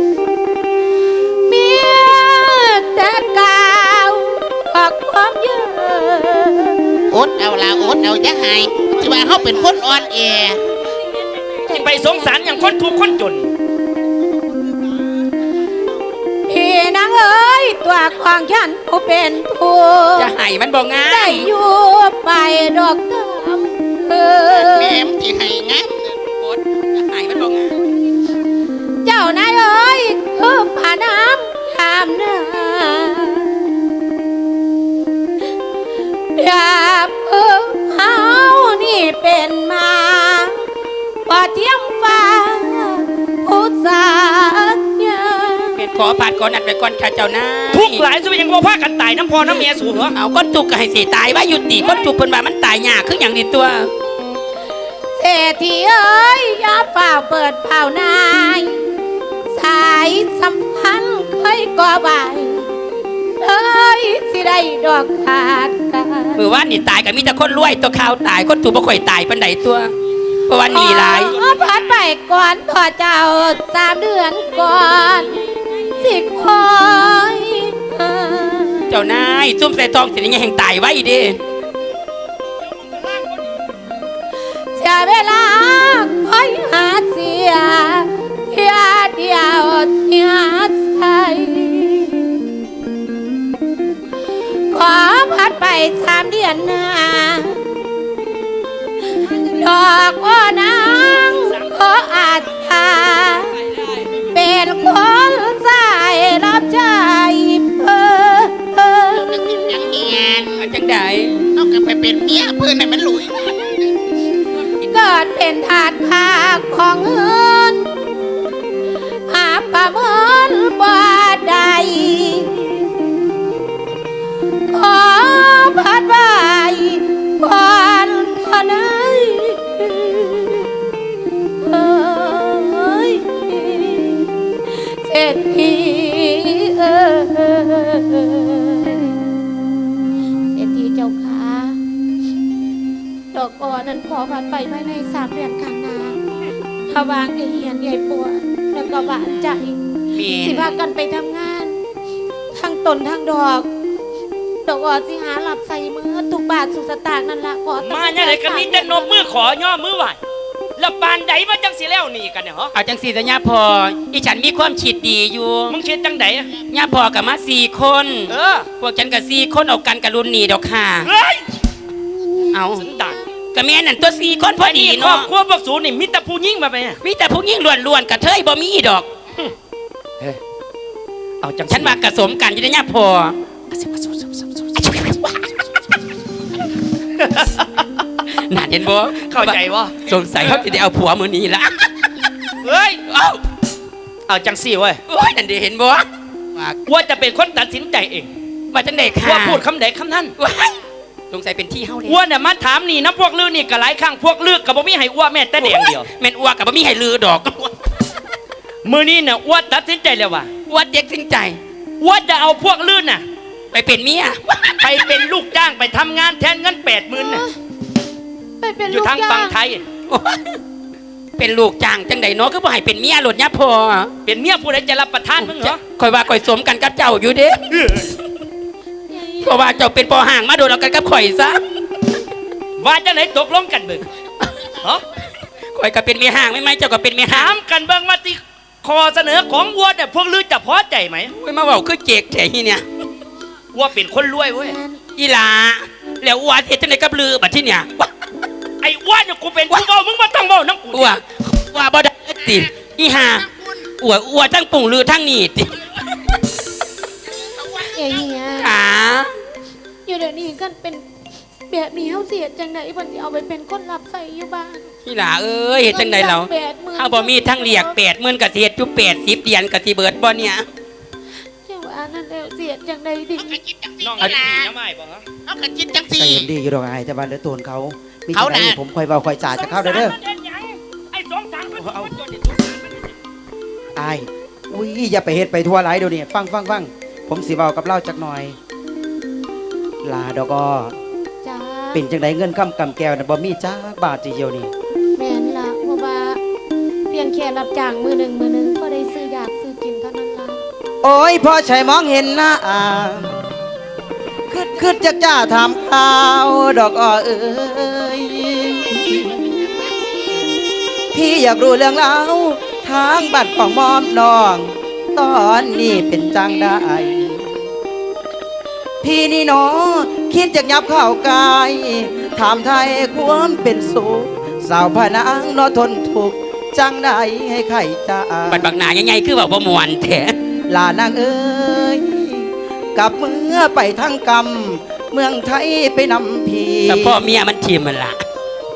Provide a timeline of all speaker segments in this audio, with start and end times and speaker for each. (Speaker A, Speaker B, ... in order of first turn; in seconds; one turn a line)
Speaker A: 1.5-6.8
Speaker B: 7.1-10.6
Speaker A: 11.7-13.0
Speaker C: 11.7-13.5
Speaker A: 16.5-20.3
Speaker D: 20.2-21.5
Speaker A: 21.1-25.0
Speaker B: 24.6-26.2
Speaker D: 26.3-27.8
Speaker A: 29.1-33.6
Speaker A: 36.4-40.6
Speaker A: 41.3-45.8
Speaker D: 45.8-48.0
Speaker C: 47.7-50.1
Speaker D: 50.1-53.9
Speaker A: 55.2-58.8
Speaker A: 59.5-62.7
Speaker A: 63.4-66.4
Speaker D: 66.4-69.9
Speaker D: 70.5-71.3
Speaker A: 70.7-75.4
Speaker C: 70.7-72.0
Speaker A: 76.0-78.9
Speaker D: 78.9-81.4
Speaker C: 82.9-83.3
Speaker A: 84.8-92.3
Speaker A: 94.7-97.6
Speaker A: 99.3-103.5
Speaker A: 104.3-109.7
Speaker B: 109.3-110.6
Speaker D: 110.6-111.4
Speaker B: 111.5-113.9
Speaker A: 114.9-117.8
Speaker A: 119.3-122.8
Speaker A: 124.7-130.7
Speaker A: 131.6-134.3
Speaker A: 134.9-139.1
Speaker A: 140.5-141.8
Speaker A: 143.3-146.2
Speaker A: 146.9-149.8
Speaker D: 150.2-150.7
Speaker A: 150.4-151.8
Speaker A: 152.5-153.7
Speaker A: 154.6-159.3
Speaker C: 157.8-160.2
Speaker C: 160.8-162.7
Speaker D: 162.7-165.8
Speaker C: 165.7-166.5
Speaker D: 166.7-171.1
Speaker C: 168.3-168.7
Speaker C: 171.0-171.6
Speaker D: 172.5-172.8
Speaker C: 172.7-173.2
Speaker D: 173.5-175.3
Speaker C: 174.6-177.0
Speaker D: 177.0-179.1
Speaker C: 181.4-182.0
Speaker D: 181.7-185.5
Speaker C: 187.2-187.7
Speaker D: 188.3-192.3
Speaker C: 189.3-190.7
Speaker C: 192.6-193.0
Speaker D: 193.1-193.4
Speaker C: 194.3-195.0
Speaker D: 195.1-196.1
Speaker C: 196.9-198.3
Speaker D: 198.7-199.6
Speaker C: 199.2-200.3
Speaker D: 200.4-200.8
Speaker D: 201.3-202.2
Speaker C: 202.1-206.1
Speaker D: 205.6-207.7
Speaker C: 208.8-210.5
Speaker D: 210.7-211.6
Speaker C: 212.0-213.2
Speaker D: 213.7-215.1
Speaker C: 214.8-217.4
Speaker A: 217.2-217.5
Speaker A: 218.6-219.6
Speaker C: 218.9-219.9
Speaker D: 220.1-220.4
Speaker D: 221.4-224.1
Speaker C: 224.3-225.8
Speaker D: 225.4-227.6
Speaker C: 227.7-228.1
Speaker A: 229.1-229.6
Speaker D: 229.4-231.6
Speaker C: 232.8-234.1
Speaker D: 235.8-237.5
Speaker C: 237.3-241.3
Speaker D: 241.4-242.8
Speaker C: 243.7-244.8
Speaker A: 244.6-245.0
Speaker D: 245.2-248.1
Speaker C: 248.8-251.2
Speaker D: 250.9-253.5
Speaker B: 252.5-253.8
Speaker D: 254.0-256.0
Speaker B: 257.4-257.9
Speaker A: 257.9-258.7
Speaker D: 258.6-259.3
Speaker A: 260.1-261.1
Speaker A: 261.7-264.9
Speaker D: 265.1-270.6
Speaker A: 265.9-268.0
Speaker A: 271.7-273.5
Speaker B: 273.4-274.7
Speaker C: 274.0-275.2
Speaker B: 275.4-276.5
Speaker E: 276.1-280.2
Speaker B: 278.3-278.8
Speaker C: 279.6-283.1
Speaker E: 281.8-282.1
Speaker E: 283.9-288.6
Speaker E: 290.0-291.0
Speaker A: 291.4-292.0
Speaker E: 291.9-294.7
Speaker A: 295.2-296.4
Speaker A: 297.1-300.6
Speaker E: 301.0-303.4
Speaker E: 304.5-309.5
Speaker E: 311.1-317.6
Speaker E: 319.0-328.7
Speaker D: 328.5-330.4
Speaker E: 330.7-337.2
Speaker D: 336.9-338.2